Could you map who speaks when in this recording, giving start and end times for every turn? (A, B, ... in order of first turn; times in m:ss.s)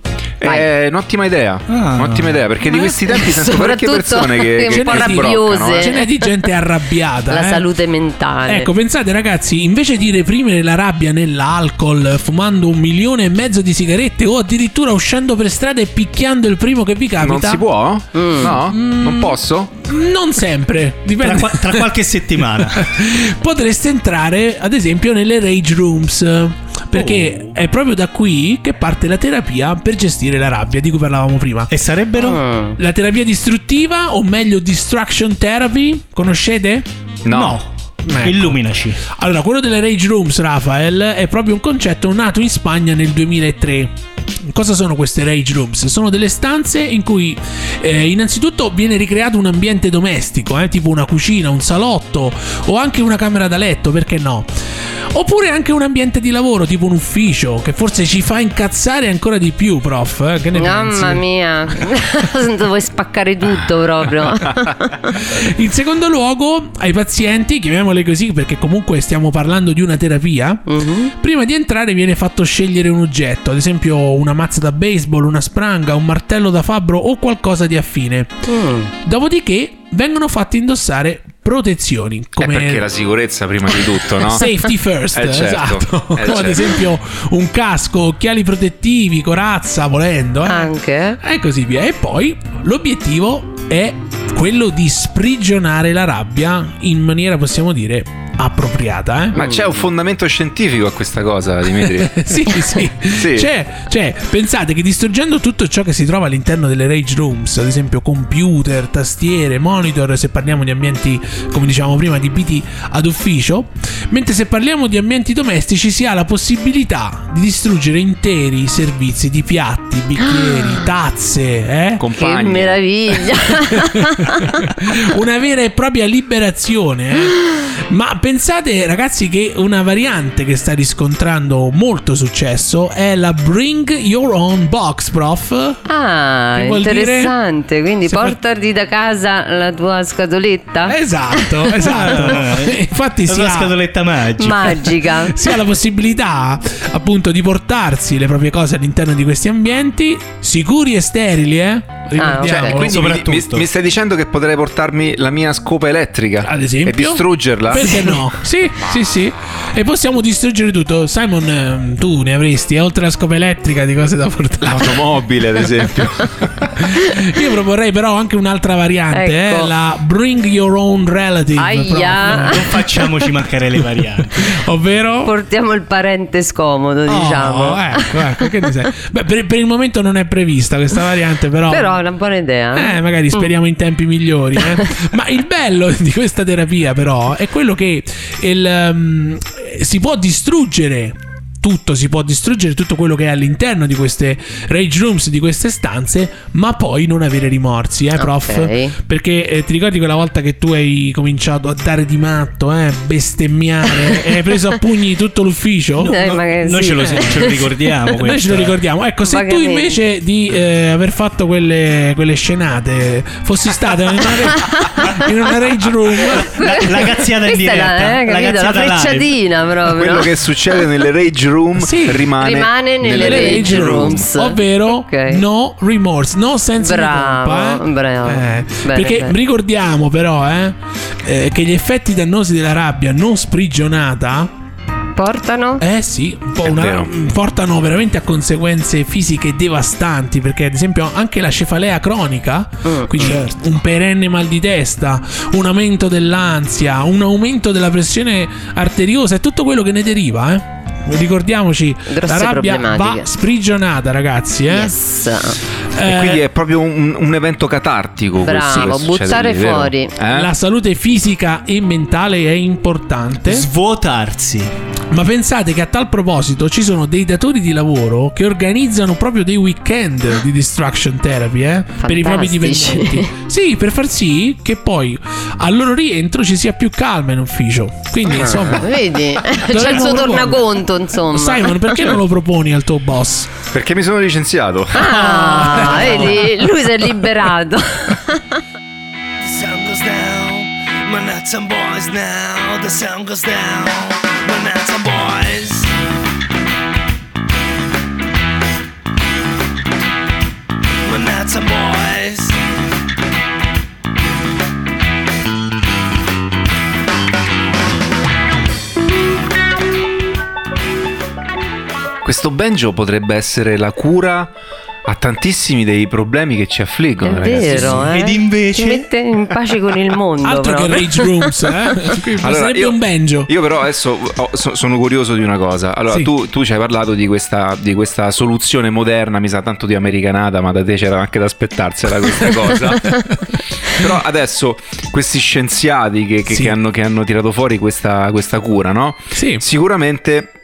0:00.4-0:05.9 A
0:01.7-0:02.4 B
0:02.7-0:06.4 C
0:04.6-0:07.6 D
0:07.3-0:08.7 C
0:08.5-0:17.6 D
0:17.2-0:19.7 A
0:18.1-0:18.5 C
0:18.4-0:21.9 D
0:21.2-0:23.0 B
0:22.6-0:31.7 D
0:26.9-0:27.4 B
0:31.7-0:32.4 B
0:32.2-0:32.8 C
0:32.8-0:37.5 D
0:37.2-0:37.6 A
0:37.3-0:39.0 B
0:38.0-0:43.9 D
0:44.4-0:54.5 D
0:55.1-1:01.2 D
1:00.6-1:05.1 C
1:05.1-1:18.4 D
1:10.7-1:11.1 C
1:18.5-1:18.9 C
1:19.0-1:22.9 D
1:22.4-1:24.5 A
1:24.2-1:39.4 D
1:25.1-1:26.8 A
1:30.4-1:31.2 C
1:39.4-1:39.6 C
1:39.4-1:42.2 A
1:41.8-2:02.0 D
1:43.1-1:43.5 A
2:00.2-2:00.9 C
2:02.0-2:02.8 A
2:02.2-2:04.6 C
2:03.7-2:15.8 D
2:15.9-2:21.9 C
2:16.6-2:17.3 D
2:18.1-2:18.4 D
2:20.9-2:23.7 D
2:21.8-2:24.9 B
2:24.4-2:25.4 C
2:25.2-2:33.0 D
2:32.2-2:32.8 C
2:32.5-2:38.2 A
2:32.8-2:33.7 B
2:36.4-2:45.1 D
2:44.6-2:46.8 A
2:46.7-2:52.8 D
2:49.1-2:49.7 C
2:51.6-2:52.6 C
2:52.3-2:54.6 B
2:54.4-2:55.3 D
2:55.2-2:58.7 C
2:57.1-3:02.0 D
3:01.7-3:03.5 C
3:02.8-3:26.1 D
3:04.6-3:04.9 C
3:18.2-3:19.0 C
3:23.9-3:24.4 C
3:26.0-3:28.8 B
3:26.0-3:27.7 C
3:28.2-3:36.5 D
3:29.3-3:30.0 C
3:34.5-3:35.3 C
3:36.3-3:40.3 C
3:36.5-3:39.3 B
3:39.9-3:44.2 A
3:41.8-3:42.3 D
3:42.4-3:45.4 C
3:43.1-3:54.5 D
3:46.8-3:49.4 C
3:55.2-3:55.8 C
3:55.8-4:15.0 D
3:56.6-3:57.1 A
4:02.8-4:03.4 C
4:12.1-4:13.3 C
4:14.7-4:15.6 C
4:15.9-4:16.4 D
4:16.0-4:20.5 A
4:18.4-4:20.1 C
4:20.3-4:23.7 D
4:23.4-4:24.7 B
4:25.1-4:40.7 D
4:32.0-4:33.3 C
4:38.3-4:42.2 C
4:41.3-4:43.5 D
4:43.7-4:45.1 A
4:44.9-4:48.6 C
4:45.0-4:46.7 D
4:49.4-4:55.9 E
5:01.0-5:02.6 E
5:12.2-5:14.5 A
5:15.0-5:18.1 A
5:17.2-5:21.5 C
5:17.6-5:19.1 B
5:20.4-5:23.5 D
5:22.4-5:23.0 A
5:23.5-5:40.5 A
5:32.4-5:33.2 D
5:36.5-5:36.7 D
5:39.3-5:39.6 D